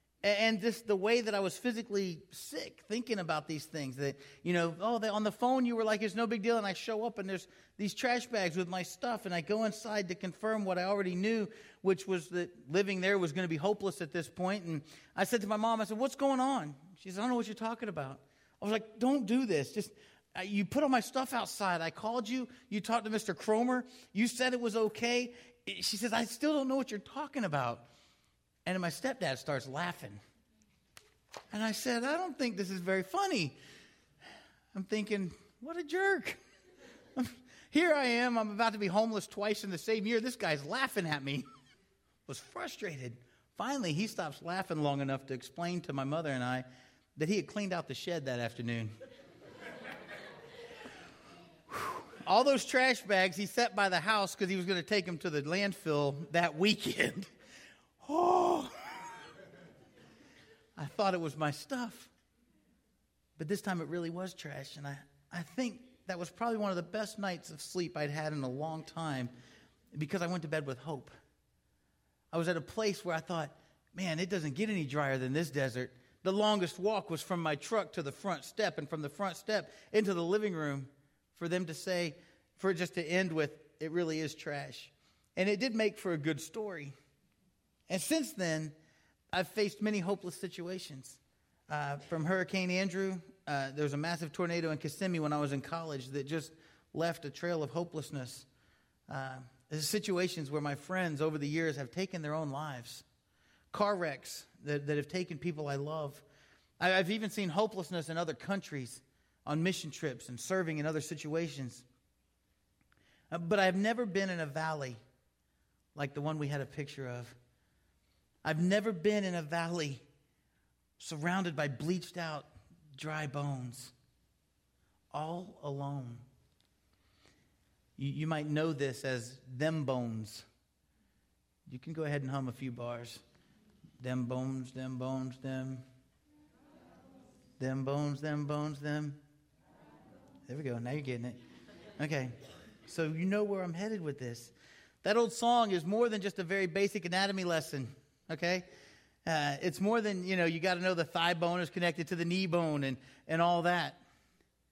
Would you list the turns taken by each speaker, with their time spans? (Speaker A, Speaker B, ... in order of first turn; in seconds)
Speaker A: 0.2-27.9, 28.6-30.2, 31.5-33.5, 34.7-36.4, 37.1-41.5, 42.3-46.6, 47.2-48.9, 51.7-57.3, 58.0-59.1, 60.8-62.1, 63.4-69.3, 69.9-71.1, 72.3-86.9, 87.9-88.7, 89.3-98.5, 99.1-103.0, 103.7-106.2, 106.8-111.8, 113.3-115.0, 115.9-117.3, 118.4-120.0, 121.0-123.9, 125.1-126.2, 128.0-130.4, 131.7-133.2, 134.0-135.8, 137.6-139.2, 140.5-141.4, 142.0-148.7, 149.2-154.0